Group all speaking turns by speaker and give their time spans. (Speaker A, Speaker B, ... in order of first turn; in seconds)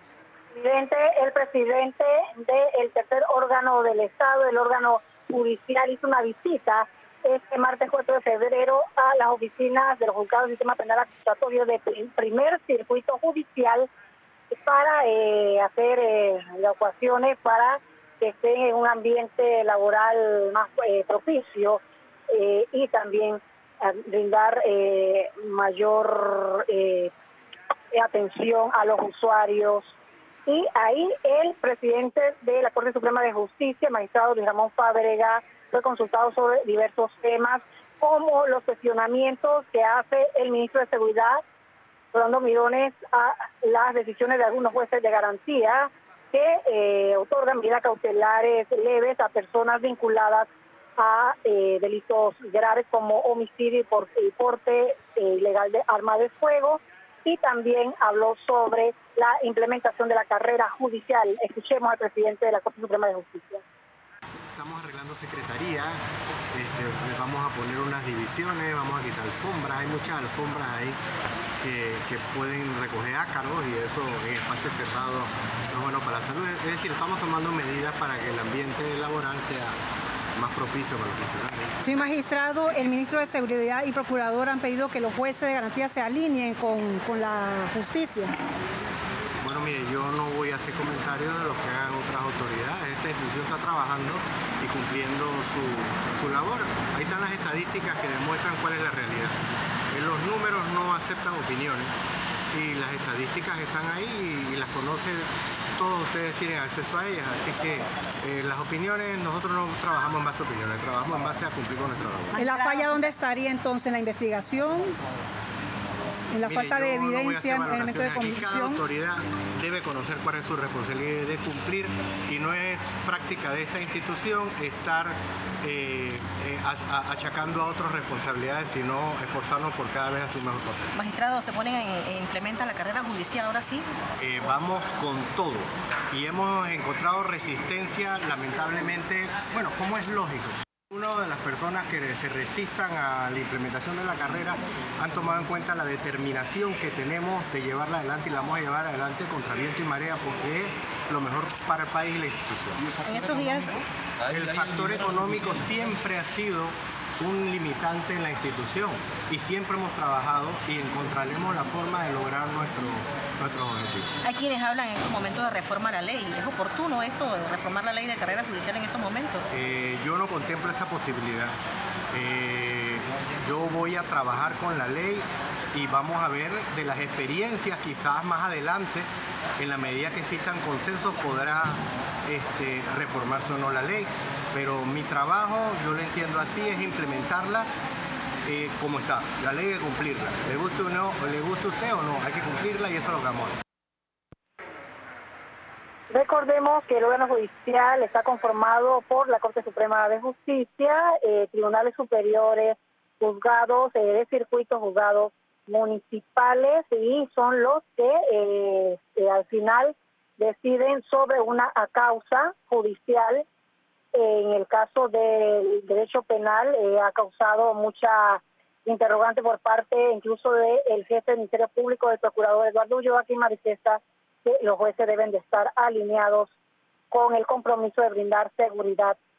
Speaker A: 0.5-13.9, 14.5-27.1, 27.9-41.4, 42.1-63.6, 196.1-213.4, 214.1-226.5, 227.1-229.2
Speaker B: 64.5-66.0, 66.5-71.0, 71.6-79.8, 80.4-81.7, 89.4-99.4, 99.9-101.9, 102.5-112.4, 116.4-130.9, 134.2-152.9, 154.3-164.1, 169.5-171.6, 172.1-187.7, 188.4-193.6
Speaker C: 81.8-88.3, 112.4-115.0, 116.3-118.8
Speaker D: 112.3-113.1, 130.9-133.9, 153.1-153.8, 164.2-169.4